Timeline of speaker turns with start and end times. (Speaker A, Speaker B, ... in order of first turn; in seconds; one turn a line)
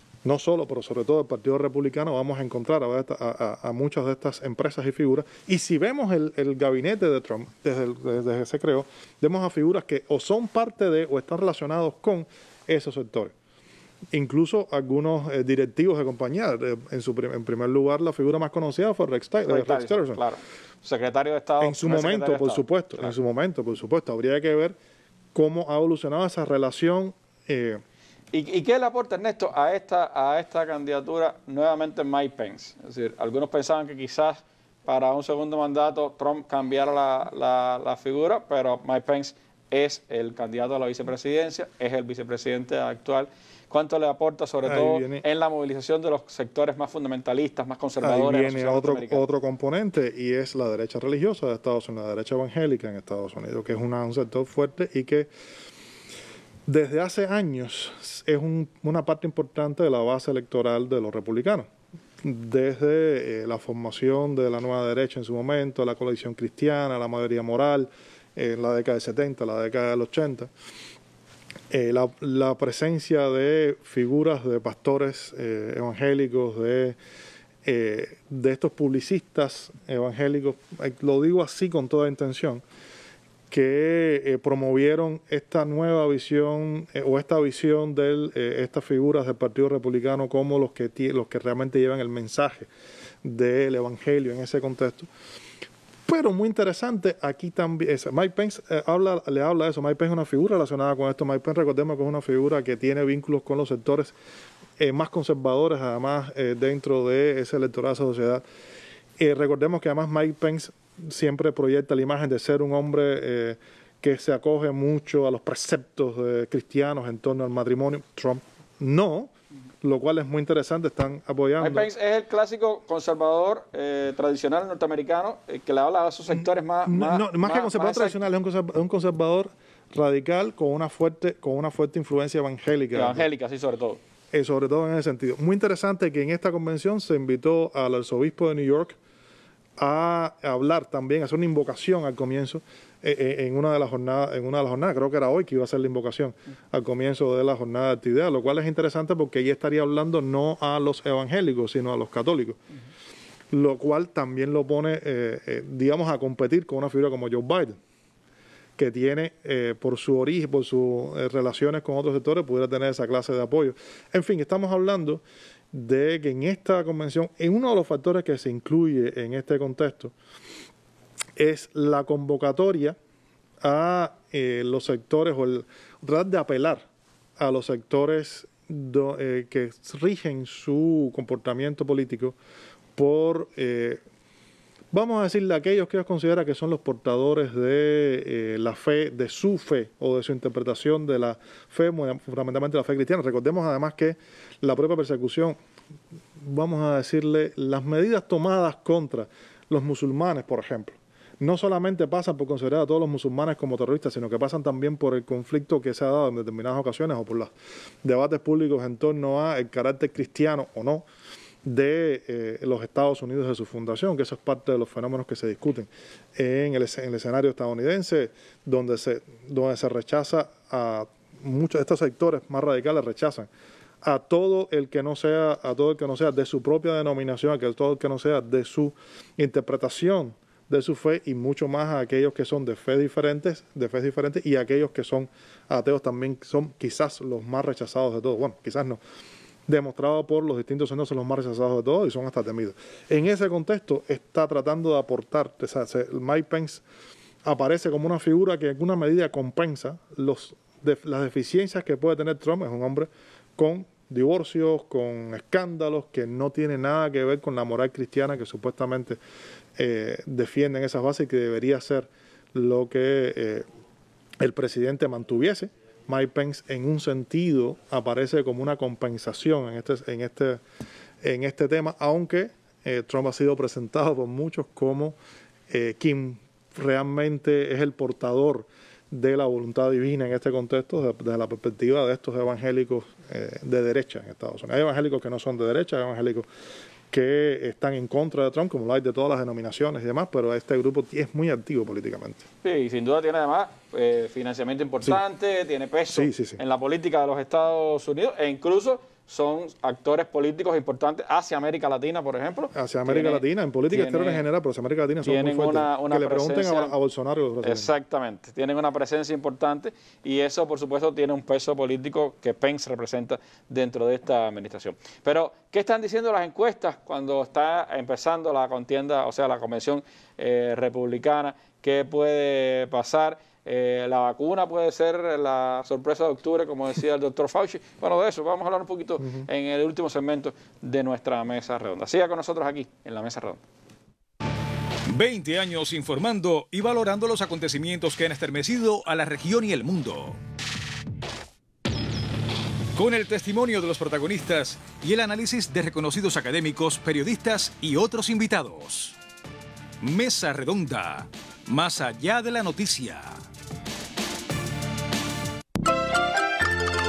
Speaker A: 0.2-13.3
Speaker A: 14.1-20.2
Speaker B: 19.5-23.1
Speaker A: 21.6-24.8
Speaker A: 25.3-27.8
Speaker B: 28.3-49.2
Speaker A: 44.7-45.2
Speaker A: 48.0-55.3
Speaker A: 56.7-61.7
Speaker A: 62.2-70.5
Speaker A: 71.7-77.0
Speaker A: 77.7-82.6
Speaker A: 83.5-92.7
Speaker A: 93.2-95.1
Speaker A: 96.1-104.2
Speaker A: 104.8-108.4
Speaker A: 109.2-119.3
Speaker A: 119.8-121.9
Speaker B: 121.6-128.2
Speaker A: 126.3-133.2
Speaker B: 132.9-134.0
Speaker A: 134.3-139.0
Speaker A: 139.8-152.6
Speaker A: 153.5-157.8
Speaker A: 158.8-170.1
Speaker A: 171.4-173.0
Speaker A: 173.6-176.8
Speaker A: 177.4-182.4
Speaker A: 183.0-184.0
Speaker A: 184.9-195.6
Speaker A: 196.4-207.5
Speaker A: 208.0-211.1
Speaker A: 211.7-223.5
Speaker A: 224.0-239.0
Speaker A: 239.7-246.8
Speaker A: 247.4-259.2
Speaker A: 259.8-263.7
Speaker A: 264.4-270.6
Speaker A: 271.2-275.2
Speaker A: 275.7-286.5
Speaker A: 287.1-292.5
Speaker B: 292.6-304.4
Speaker A: 296.1-296.6
Speaker A: 302.7-307.9
Speaker B: 305.2-306.9
Speaker B: 307.6-333.6
Speaker A: 329.2-329.5
Speaker C: 335.1-340.4
Speaker C: 343.0-349.2
Speaker C: 350.0-353.4